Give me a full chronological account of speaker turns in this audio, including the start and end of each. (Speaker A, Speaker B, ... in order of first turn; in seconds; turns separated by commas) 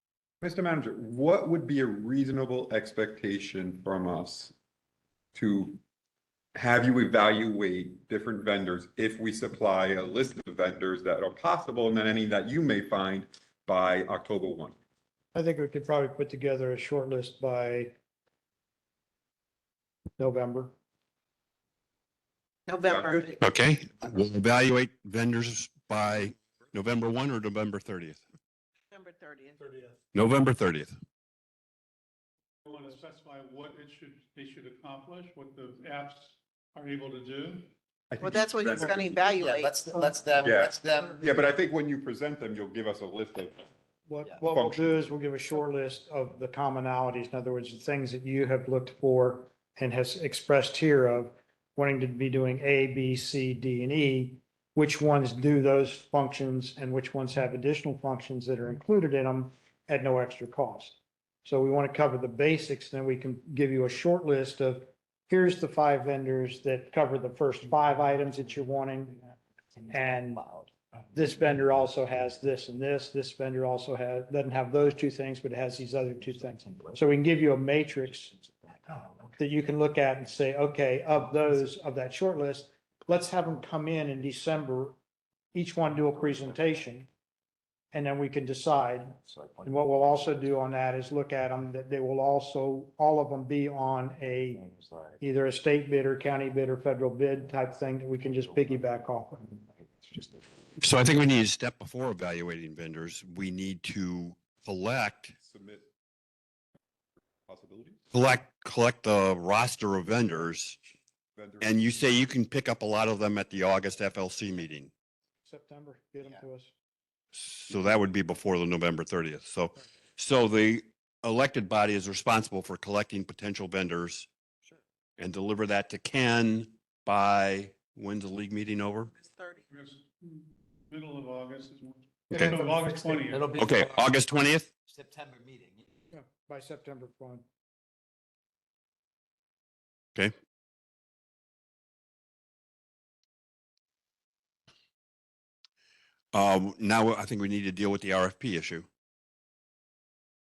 Speaker A: 0.4-4.5, Speaker A: 5.3-5.8, Speaker A: 6.5-14.8, Speaker B: 15.3-17.9, Speaker B: 20.2-20.7, Speaker C: 22.7-23.4, Speaker A: 22.9-23.2, Speaker D: 23.4-28.2, Speaker C: 28.9-29.6, Speaker D: 30.1-30.9, Speaker E: 32.7-37.7, Speaker A: 38.1-39.2, Speaker C: 38.2-39.8, Speaker F: 39.2-41.2, Speaker A: 40.4-43.7, Speaker B: 44.1-69.3, Speaker A: 44.5-45.0, Speaker B: 69.9-70.5, Speaker F: 69.9-70.7, Speaker B: 71.1-78.3, Speaker F: 76.3-77.0, Speaker F: 77.8-79.3, Speaker B: 79.4-85.0, Speaker B: 85.5-87.1, Speaker F: 86.2-86.8, Speaker B: 87.9-94.6, Speaker F: 89.3-90.5, Speaker F: 94.6-95.2, Speaker B: 95.2-99.5, Speaker F: 98.3-98.8, Speaker F: 99.5-100.4, Speaker D: 100.8-105.4, Speaker A: 105.4-105.9, Speaker A: 107.5-108.0, Speaker D: 108.1-110.8, Speaker A: 111.3-112.2, Speaker D: 111.6-114.9, Speaker B: 115.5-116.7, Speaker F: 116.2-116.5, Speaker D: 117.3-124.3, Speaker D: 125.2-129.1, Speaker C: 129.2-129.6, Speaker E: 129.7-133.6, Speaker D: 132.3-132.6, Speaker F: 132.3-134.2, Speaker D: 133.6-134.7, Speaker F: 134.8-135.8, Speaker B: 136.1-137.4, Speaker D: 146.3-148.9